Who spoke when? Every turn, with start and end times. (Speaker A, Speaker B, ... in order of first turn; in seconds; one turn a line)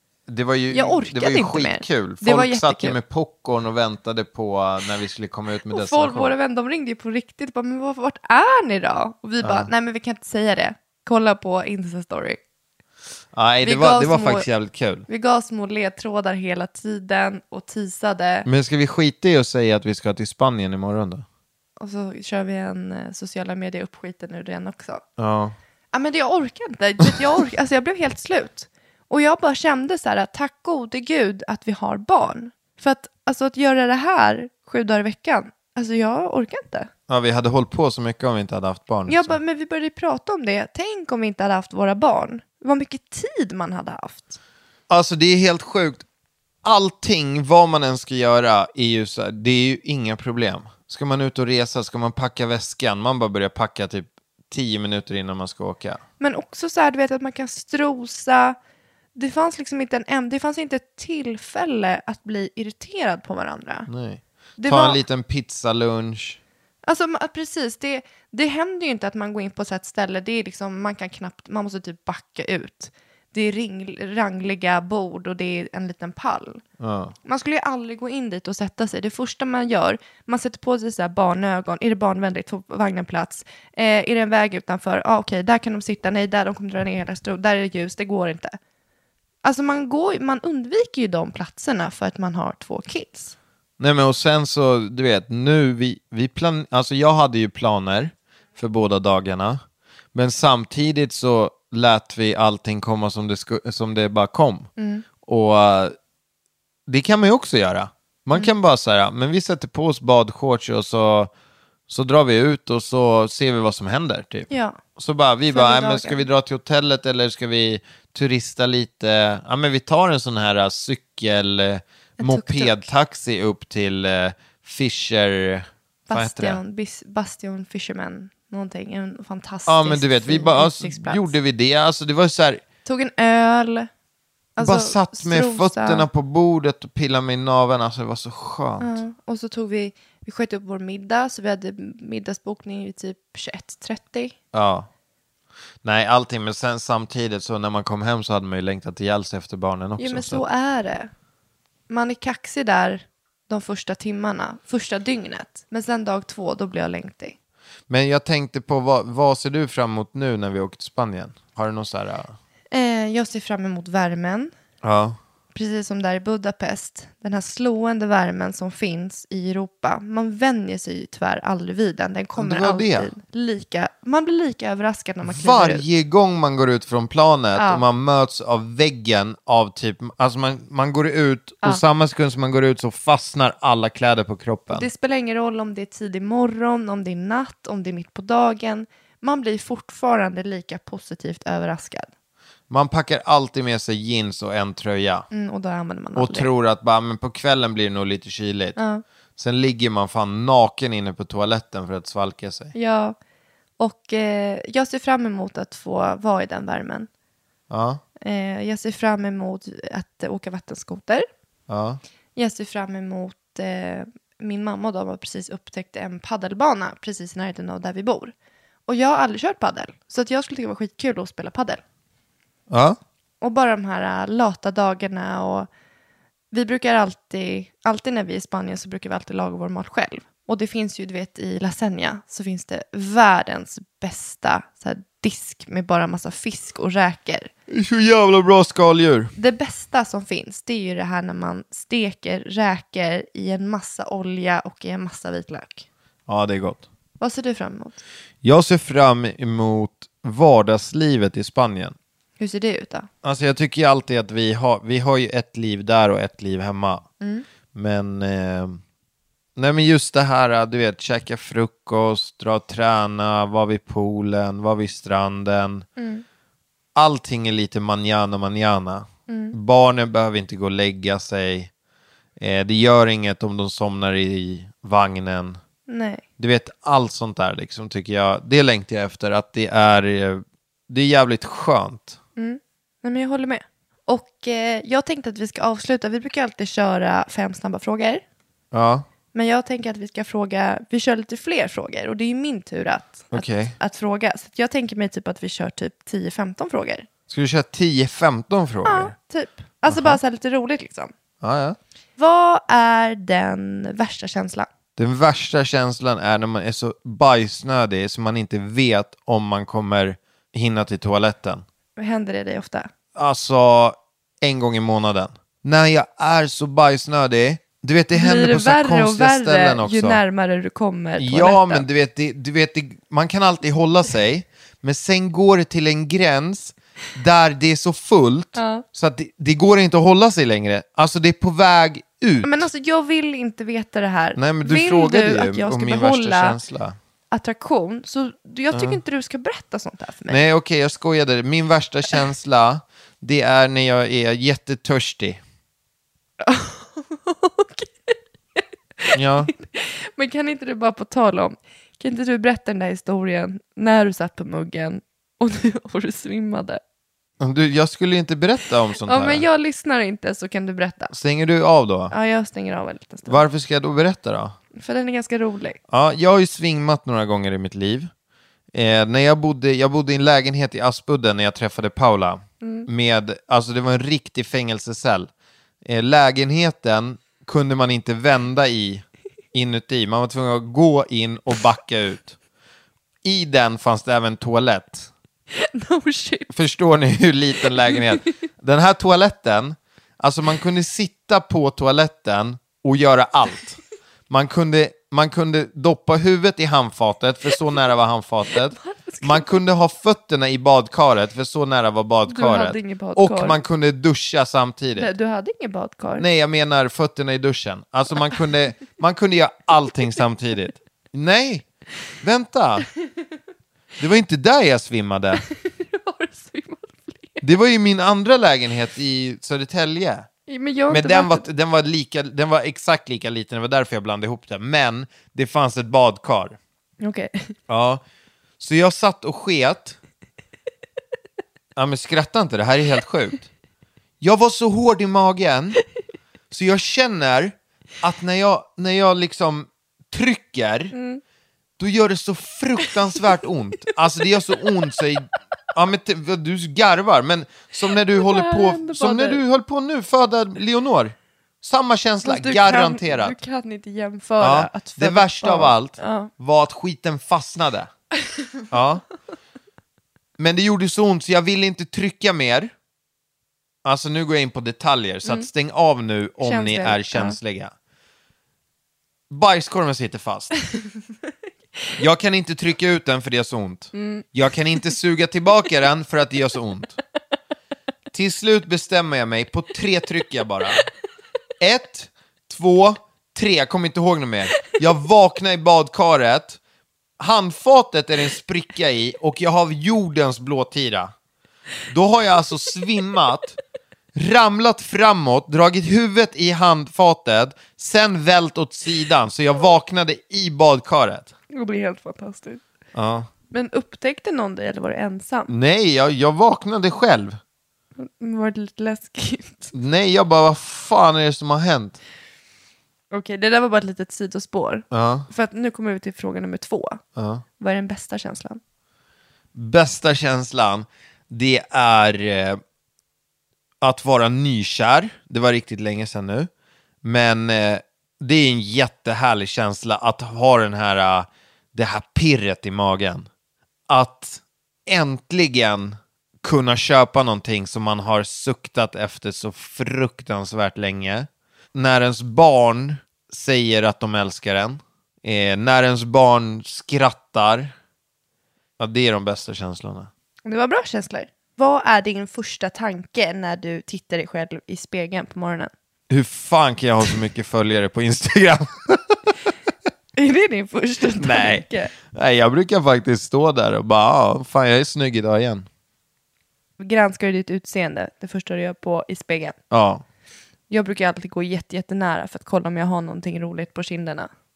Speaker A: 0.3-6.3
Speaker B: 0.7-3.0
Speaker B: 5.7-12.4
Speaker A: 9.4-9.7
Speaker A: 13.3-15.1
Speaker B: 13.6-14.5
Speaker B: 15.1-18.5
Speaker A: 18.5-21.2
Speaker B: 21.8-25.0
Speaker A: 25.2-25.6
Speaker B: 25.9-36.9
Speaker A: 37.1-39.4
Speaker B: 39.1-44.4
Speaker A: 44.9-46.0
Speaker A: 46.6-56.0
Speaker B: 56.2-58.6
Speaker B: 59.1-63.9
Speaker A: 63.9-66.4
Speaker B: 64.6-65.0
Speaker B: 66.8-76.6
Speaker A: 76.8-77.2
Speaker B: 77.2-88.6
Speaker B: 89.4-93.3
Speaker A: 93.8-99.6
Speaker A: 100.1-104.7
Speaker B: 104.8-105.0
Speaker A: 105.2-106.0
Speaker A: 106.9-111.3
Speaker A: 111.9-126.6
Speaker B: 114.5-114.8
Speaker B: 115.5-116.2
Speaker B: 122.2-122.9
Speaker B: 126.1-131.3
Speaker A: 129.7-132.6
Speaker B: 132.8-133.9
Speaker B: 134.6-136.1
Speaker A: 134.6-139.0
Speaker B: 138.8-144.3
Speaker A: 144.5-144.9
Speaker A: 145.8-150.4
Speaker B: 150.0-151.1
Speaker B: 151.9-157.4
Speaker A: 157.9-162.4
Speaker B: 162.7-164.5
Speaker A: 164.8-165.2
Speaker B: 165.5-175.8
Speaker A: 172.4-173.1
Speaker A: 175.3-184.9
Speaker B: 177.6-177.8
Speaker B: 184.7-192.1
Speaker A: 192.7-195.3
Speaker B: 195.3-196.5
Speaker A: 196.2-198.8
Speaker B: 198.8-199.0
Speaker A: 199.4-202.7
Speaker B: 202.7-203.2
Speaker B: 203.8-207.1
Speaker A: 207.7-208.0
Speaker B: 208.2-211.3
Speaker A: 211.7-212.0
Speaker B: 212.4-218.3
Speaker B: 218.9-221.8
Speaker A: 222.7-223.0
Speaker B: 223.4-225.7
Speaker B: 226.5-237.5
Speaker A: 237.7-239.3
Speaker B: 239.4-245.9
Speaker A: 246.3-246.8
Speaker B: 247.2-248.0
Speaker A: 248.4-252.0
Speaker B: 252.4-253.1
Speaker A: 253.2-257.1
Speaker B: 257.2-257.5
Speaker A: 257.7-258.8
Speaker A: 259.6-265.9
Speaker B: 266.0-266.2
Speaker A: 266.9-271.7
Speaker B: 269.3-269.6
Speaker A: 272.4-275.6
Speaker B: 275.9-276.2
Speaker A: 276.4-282.2
Speaker B: 282.4-288.2
Speaker A: 288.7-289.1
Speaker B: 289.3-297.1
Speaker A: 293.3-293.8
Speaker A: 297.3-299.1
Speaker B: 298.9-301.1
Speaker A: 299.9-300.2
Speaker A: 301.4-301.8
Speaker B: 302.2-304.7
Speaker A: 305.0-311.6
Speaker B: 312.0-312.9
Speaker A: 313.1-320.2
Speaker B: 318.1-321.9
Speaker A: 321.2-332.7
Speaker B: 328.6-328.9
Speaker B: 332.4-336.6
Speaker A: 334.4-337.0
Speaker B: 337.3-340.4
Speaker A: 338.7-339.0
Speaker A: 340.3-345.4
Speaker B: 346.4-356.8
Speaker A: 349.1-349.5
Speaker A: 357.4-359.5
Speaker B: 359.0-361.1
Speaker A: 361.1-362.1
Speaker B: 362.1-363.4
Speaker A: 363.3-364.6
Speaker B: 364.7-365.8
Speaker A: 365.9-368.1
Speaker A: 368.7-375.3
Speaker B: 372.6-372.9
Speaker A: 375.8-382.4
Speaker A: 383.2-385.1
Speaker B: 385.5-386.5
Speaker A: 386.5-405.1
Speaker B: 398.7-399.5
Speaker B: 402.3-403.6
Speaker B: 405.0-406.3
Speaker A: 406.2-411.7
Speaker A: 412.2-412.9
Speaker A: 414.0-415.4
Speaker B: 415.5-417.4
Speaker A: 417.4-420.3
Speaker B: 420.5-421.5
Speaker A: 420.9-426.6
Speaker B: 427.0-427.5
Speaker A: 427.7-428.0
Speaker A: 428.6-430.0
Speaker A: 431.8-433.5
Speaker A: 434.2-435.8
Speaker A: 436.5-440.9
Speaker B: 440.9-441.2
Speaker A: 441.8-453.4
Speaker B: 448.1-449.4
Speaker B: 452.2-456.3
Speaker A: 454.4-457.9
Speaker A: 458.7-459.0
Speaker A: 460.4-462.7
Speaker A: 463.8-467.7
Speaker B: 466.4-467.4
Speaker A: 469.3-470.5
Speaker A: 472.0-477.0
Speaker B: 473.9-474.2
Speaker A: 478.1-480.9
Speaker A: 481.6-486.6
Speaker A: 487.2-491.1
Speaker A: 491.9-493.6
Speaker A: 494.1-501.3
Speaker B: 501.5-502.6
Speaker A: 502.9-503.3
Speaker B: 503.5-505.5
Speaker A: 505.5-507.4
Speaker B: 508.0-509.7
Speaker A: 509.7-512.0
Speaker B: 513.1-517.0
Speaker A: 514.9-515.3
Speaker A: 517.2-517.4
Speaker B: 517.6-518.6
Speaker A: 519.5-522.6
Speaker A: 523.8-526.5
Speaker A: 527.0-533.3
Speaker A: 533.9-547.7
Speaker A: 548.8-550.1
Speaker B: 550.5-555.7
Speaker A: 556.1-559.2
Speaker B: 560.2-561.9
Speaker A: 561.1-565.7
Speaker B: 566.8-569.6
Speaker A: 569.7-570.0
Speaker B: 570.7-574.3